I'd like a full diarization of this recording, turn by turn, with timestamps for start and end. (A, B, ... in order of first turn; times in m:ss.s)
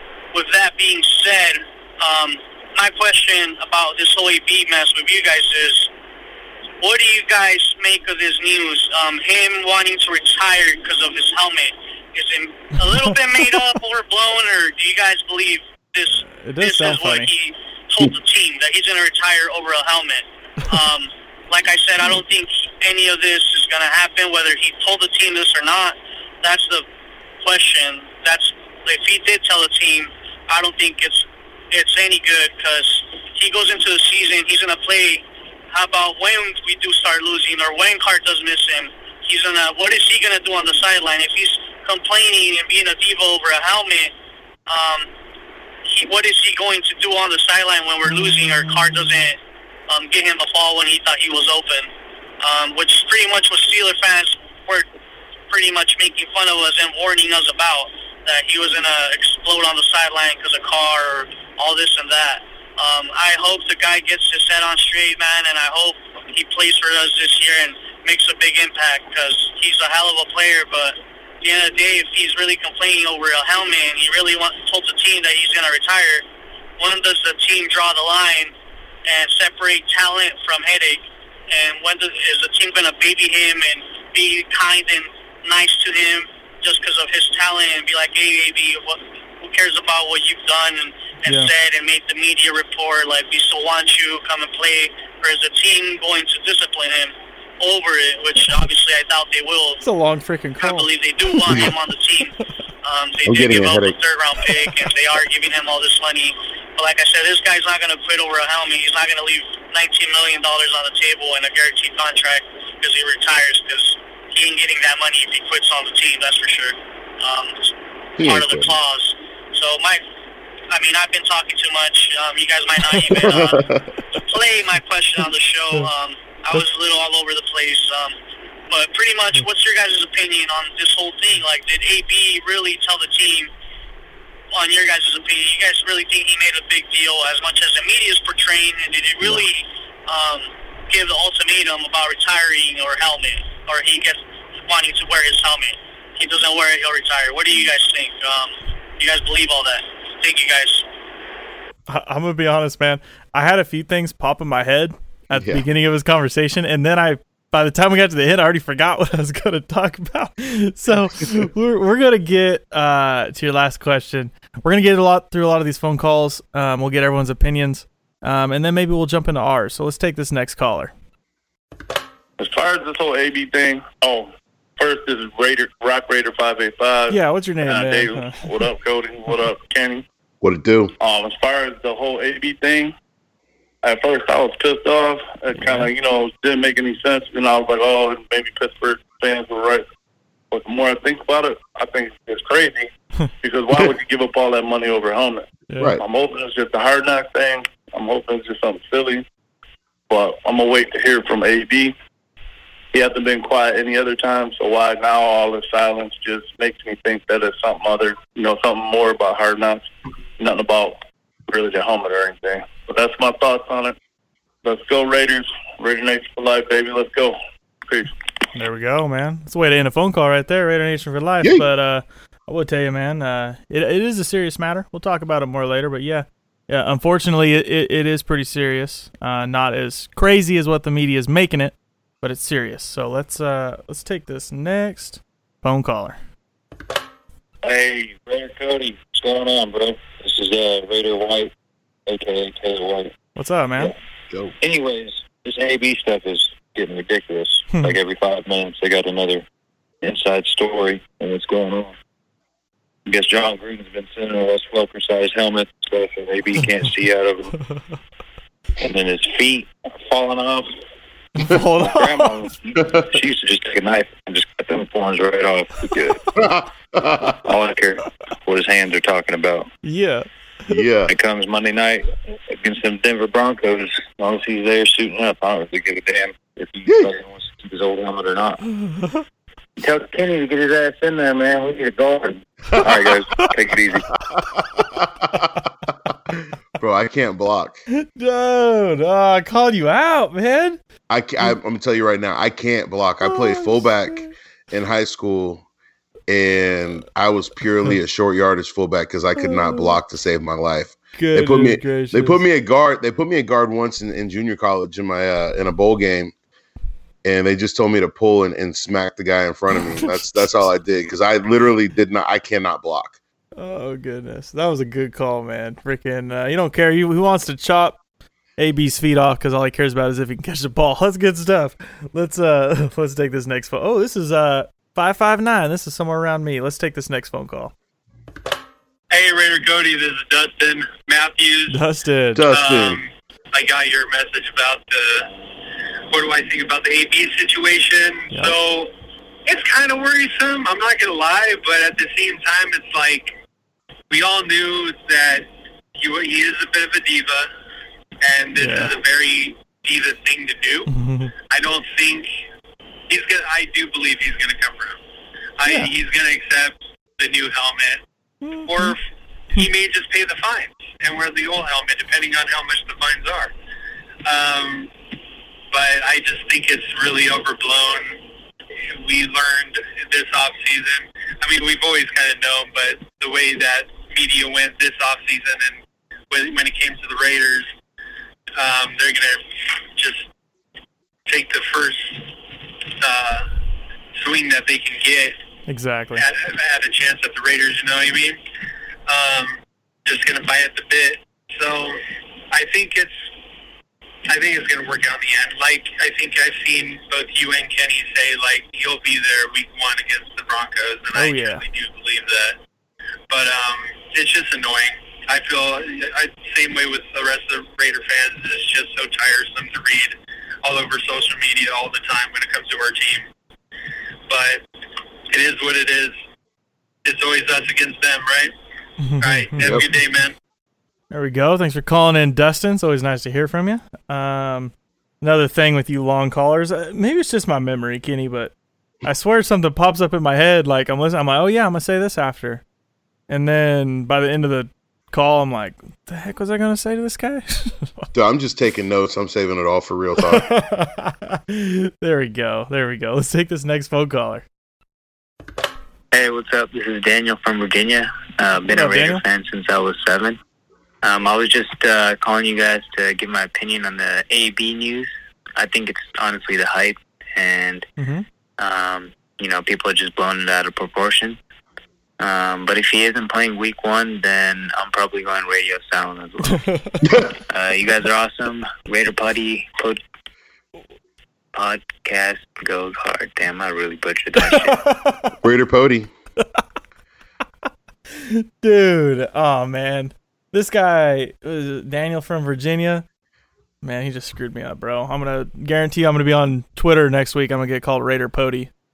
0:00.3-0:05.9 A
0:06.8-0:26.8 A
0:12.8-0:13.2 B
0:16.1-0:17.3 B
0:27.4-0:44.1 A
0:44.7-0:45.1 A
0:45.9-0:54.9 A
0:55.5-1:16.2 A
1:16.8-1:18.5 A
1:19.1-1:39.8 A
1:31.3-1:31.5 B
1:39.8-1:41.7 B
1:40.6-2:00.0 A
1:41.5-1:41.7 C
1:43.2-1:44.0 C
1:58.2-1:58.8 C
2:00.7-2:03.6 A
2:03.1-2:04.0 C
2:04.3-2:08.2 A
2:08.7-2:13.5 A
2:14.5-2:30.9 A
2:31.9-2:50.9 B
2:35.3-2:35.7 C
2:52.4-3:00.0 D
2:57.1-2:58.7 B
3:00.4-3:00.9 C
3:01.0-3:02.9 D
3:03.8-3:09.9 D
3:05.6-3:05.9 B
3:10.5-3:12.9 D
3:13.4-3:15.4 D
3:15.7-3:16.0 B
3:16.0-3:19.2 D
3:20.1-3:21.9 D
3:22.9-3:29.8 D
3:30.4-3:34.0 D
3:34.6-3:37.4 D
3:38.6-3:56.2 B
3:41.4-3:41.7 C
3:57.6-4:01.5 E
4:02.1-4:03.1 E
4:03.4-4:03.9 B
4:04.6-4:09.4 E
4:10.0-4:12.0 E
4:13.1-4:17.5 E
4:18.8-4:20.7 E
4:21.4-4:22.4 B
4:21.7-4:26.2 E
4:26.4-4:27.4 C
4:27.4-4:29.7 E
4:29.8-4:30.8 B
4:30.7-4:31.1 C
4:31.1-4:38.6 E
4:36.9-4:37.1 C
4:39.8-4:44.0 E
4:44.8-4:45.5 C
4:46.8-4:47.8 C
4:47.9-4:50.8 B
4:51.1-4:55.6 C
4:53.2-4:54.3 B
4:56.3-5:06.3 C
4:59.4-5:00.0 B
5:01.2-5:02.4 B
5:07.2-5:13.2 C
5:13.6-5:18.0 B
5:18.6-5:27.7 B
5:29.1-5:31.8 F
5:31.7-5:32.5 B
5:32.4-5:33.0 C
5:32.5-5:35.3 F
5:36.1-5:38.9 F
5:39.5-5:43.4 F
5:44.1-5:47.5 F
5:48.2-5:50.9 F
5:48.6-5:48.9 B
5:50.9-5:51.3 B
5:51.5-5:52.3 F
5:53.1-5:55.0 F
5:55.6-5:58.0 F
5:58.4-5:59.0 B
5:58.6-6:03.5 F
6:04.2-6:04.9 F
6:05.7-6:08.2 F
6:08.8-6:17.7 F
6:18.6-6:20.3 F
6:21.3-6:22.3 F
6:23.0-6:23.5 F
6:24.2-6:25.4 F
6:25.7-6:26.2 B
6:26.2-6:28.4 F
6:29.1-6:33.3 F
6:34.3-6:42.6 F
6:41.1-6:41.6 B
6:43.3-6:53.3 F
6:54.3-6:54.6 F
6:55.3-6:56.2 F
6:57.0-6:58.5 F
6:59.0-6:59.8 B
6:59.2-7:00.3 F
6:59.6-6:59.9 C
7:01.1-7:08.5 B
7:09.0-7:12.6 B
7:13.3-7:18.1 B
7:18.1-7:20.5 C
7:20.3-7:24.4 B
7:26.1-7:30.4 G
7:28.7-7:29.2 B
7:31.0-7:37.8 G
7:38.0-7:38.2 B
7:38.6-7:41.4 G
7:42.2-7:46.7 G
7:46.7-7:47.0 B
7:47.5-7:50.0 G
7:51.5-7:54.8 G
7:54.4-7:55.3 B
7:55.4-7:56.1 C
7:58.1-8:03.0 B
8:03.8-8:08.7 B